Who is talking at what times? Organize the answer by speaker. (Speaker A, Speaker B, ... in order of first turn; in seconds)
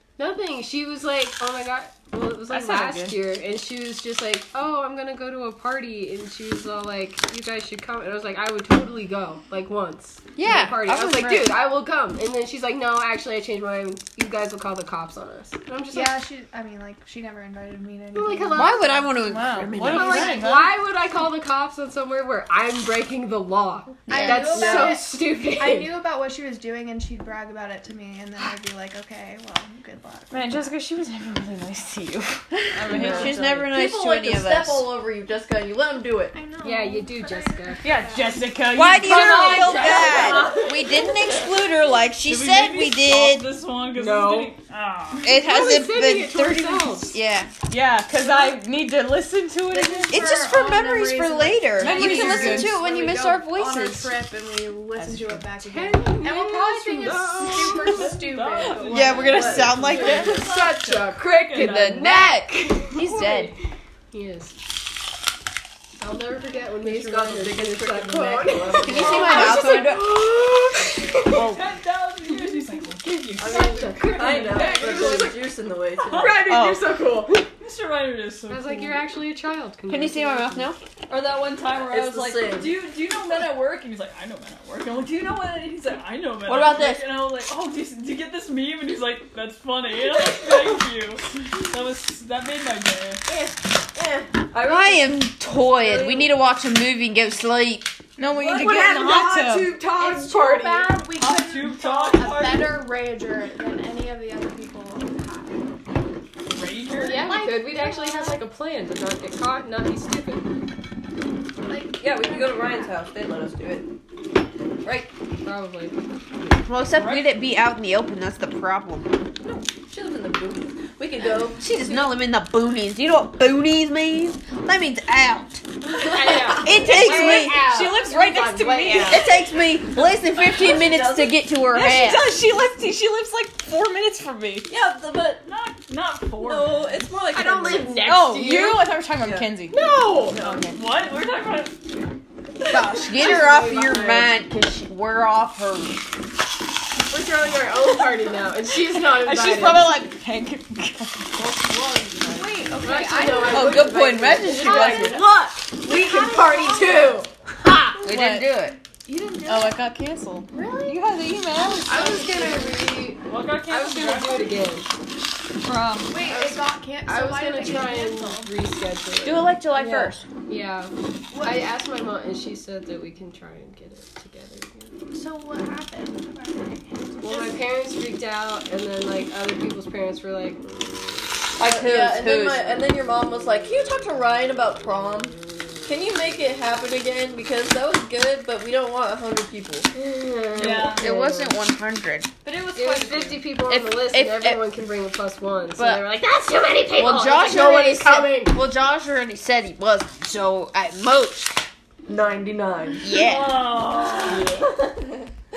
Speaker A: 0.2-16.2, 18.1-18.9, 19.8-26.0, 32.9-33.4, 36.6-37.8, 39.1-40.9, 43.9-44.5, 45.2-47.1, 55.6-58.1, 59.4-63.5, 64.1-64.5, 66.0-71.4, 73.4-75.4, 76.0-77.5, 78.5-80.7, 107.0-110.5, 115.4-116.5, 126.1-129.3, 137.3-139.0, 139.7-140.5, 143.0-144.4, 147.1-150.0, 152.8-157.3, 161.9-164.9, 166.2-174.9, 177.2-181.4, 189.9-191.5, 192.7-198.6
Speaker B: 2.5-3.2, 19.1-20.8, 30.3-33.6, 37.8-39.9, 47.7-50.4, 51.7-52.8, 55.0-55.4, 71.3-71.6, 98.2-99.8, 126.7-129.3, 131.7-134.7, 138.0-139.8, 140.3-140.8, 149.1-151.3, 158.1-158.5, 159.4-162.2
Speaker C: 10.4-11.6, 18.5-20.4, 24.1-25.2, 32.5-34.9, 38.7-43.5, 45.2-47.5, 50.1-54.1, 58.8-60.4, 61.5-63.5, 68.8-70.2, 76.5-76.8, 79.9-80.8, 86.5-87.0, 94.6-97.9, 116.7-119.1, 121.6-125.6, 126.6-127.6, 129.1-132.3, 142.7-146.0, 153.5-155.2, 158.0-158.8, 169.2-170.2, 181.6-182.7, 190.8-192.3, 193.6-194.6, 195.8-196.1, 196.9-201.7, 203.0-203.8
Speaker D: 15.9-19.1, 24.1-30.7, 36.3-38.7, 48.2-48.5, 49.6-59.4, 60.0-60.3, 74.6-75.3, 99.9-105.7, 107.0-108.5, 111.7-112.9, 152.3-154.0, 154.6-155.2, 155.8-157.2, 158.9-160.0, 160.5-161.0, 161.8-163.0, 166.1-168.5, 171.3-171.7, 175.1-177.7
Speaker E: 32.9-36.4, 39.1-40.7, 59.3-59.7, 66.8-69.6, 73.4-76.4, 81.8-82.8, 86.5-86.8, 93.3-96.3, 98.3-100.9, 111.9-113.9, 114.8-115.1, 119.4-122.1, 129.9-131.4, 134.7-135.4, 136.4-138.1, 139.2-139.5, 151.4-152.4, 154.6-155.7, 181.6-189.9, 202.1-205.3
Speaker F: 39.4-40.5, 42.2-45.3, 57.7-62.0, 71.2-75.0, 76.0-76.8, 77.3-79.1, 81.1-93.2, 101.1-102.9, 106.5-107.3, 116.9-117.4, 135.4-137.1, 140.7-142.1, 163.2-164.7, 190.6-191.0, 192.4-193.5, 203.1-204.7